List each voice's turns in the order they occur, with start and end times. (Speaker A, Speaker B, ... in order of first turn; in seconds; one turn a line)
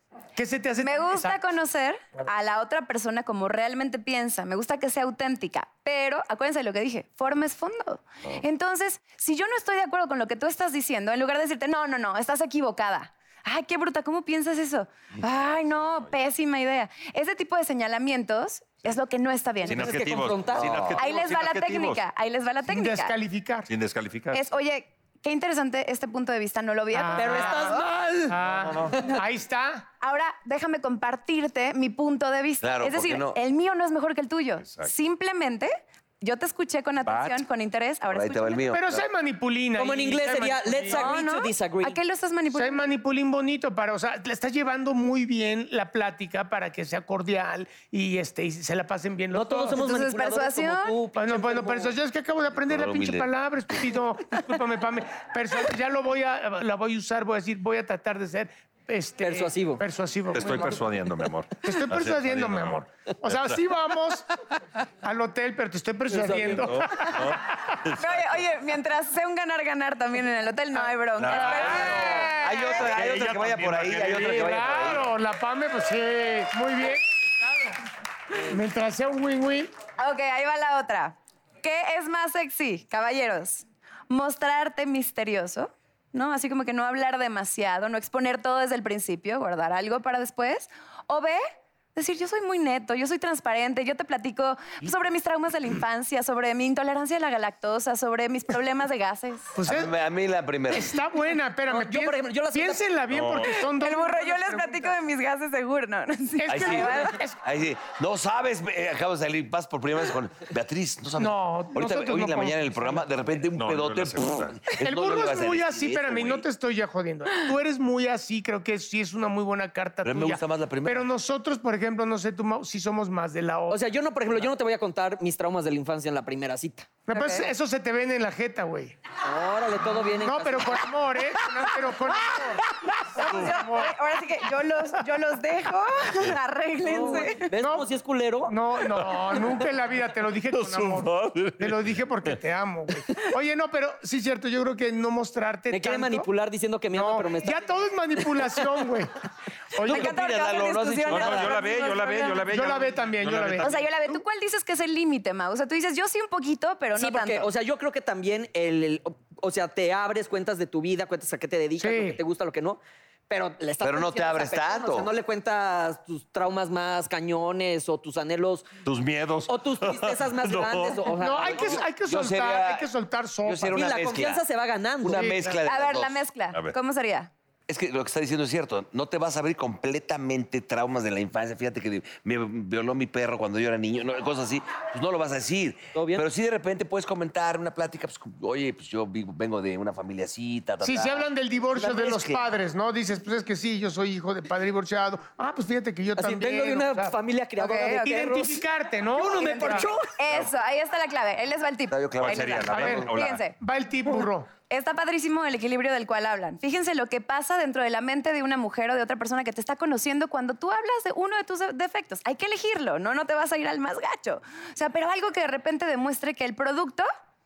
Speaker A: 0.4-1.4
Speaker B: 0.8-19.9
Speaker C: 19.7-20.8
Speaker D: 19.7-22.0
Speaker E: 20.6-21.0
Speaker B: 21.0-23.1
Speaker A: 22.7-23.7
Speaker D: 23.7-24.4
Speaker B: 24.3-27.7
Speaker A: 26.9-29.9
Speaker C: 27.2-28.4
Speaker D: 28.4-29.0
Speaker B: 30.0-38.7
Speaker E: 32.6-33.4
Speaker D: 34.6-34.9
Speaker D: 37.1-37.4
Speaker E: 38.1-39.0
Speaker A: 38.7-41.1
Speaker C: 39.8-42.0
Speaker B: 40.9-42.8
Speaker A: 42.5-49.8
Speaker C: 49.3-51.9
Speaker B: 49.8-51.0
Speaker A: 51.1-61.0
Speaker E: 52.6-53.3
Speaker C: 59.2-59.8
Speaker D: 60.3-63.6
Speaker A: 61.6-64.3
Speaker A: 65.0-67.2
Speaker C: 66.1-66.7
Speaker D: 66.3-68.4
Speaker B: 68.0-72.3
Speaker D: 71.2-75.1
Speaker A: 71.4-72.8
Speaker E: 72.3-75.0
Speaker A: 74.2-77.8
Speaker A: 78.5-79.7
Speaker B: 80.0-91.4
Speaker B: 92.0-99.5
Speaker A: 99.5-99.9
Speaker E: 99.6-101.0
Speaker A: 100.7-104.9
Speaker C: 101.7-102.8
Speaker D: 103.1-103.5
Speaker B: 103.7-107.2
Speaker A: 106.4-107.4
Speaker E: 106.5-116.5
Speaker A: 111.2-113.1
Speaker D: 113.5-114.7
Speaker A: 114.8-123.8
Speaker E: 120.0-121.0
Speaker C: 123.7-126.9
Speaker A: 127.1-129.0
Speaker B: 127.1-127.5
Speaker C: 129.2-130.8
Speaker A: 130.2-132.6
Speaker A: 133.2-134.0
Speaker B: 133.2-137.5
Speaker C: 136.8-138.6
Speaker A: 136.9-137.9
Speaker A: 138.5-146.3
Speaker D: 140.5-141.9
Speaker C: 145.7-147.7
Speaker A: 146.9-149.2
Speaker A: 149.7-150.2
Speaker E: 149.8-151.6
Speaker B: 149.9-152.5
Speaker D: 151.1-153.7
Speaker A: 152.5-154.2
Speaker B: 153.6-157.5
Speaker C: 157.0-168.7
Speaker A: 161.8-162.2
Speaker E: 163.8-165.1
Speaker D: 168.8-171.1
Speaker C: 169.5-171.8
Speaker A: 171.2-173.9
Speaker E: 171.6-172.9
Speaker E: 173.4-174.4
Speaker C: 173.7-175.4
Speaker E: 175.0-176.2
Speaker A: 175.1-175.6
Speaker B: 175.7-177.3
Speaker E: 177.7-192.4
Speaker C: 185.9-186.3
Speaker A: 190.8-199.9
Speaker C: 196.2-198.6
Speaker B: 197.7-197.9
Speaker C: 199.1-200.1
Speaker B: 199.3-203.5
Speaker E: 201.9-203.1
Speaker D: 202.2-203.4
Speaker A: 202.7-203.1
Speaker A: 203.6-204.5
Speaker B: 204.6-217.1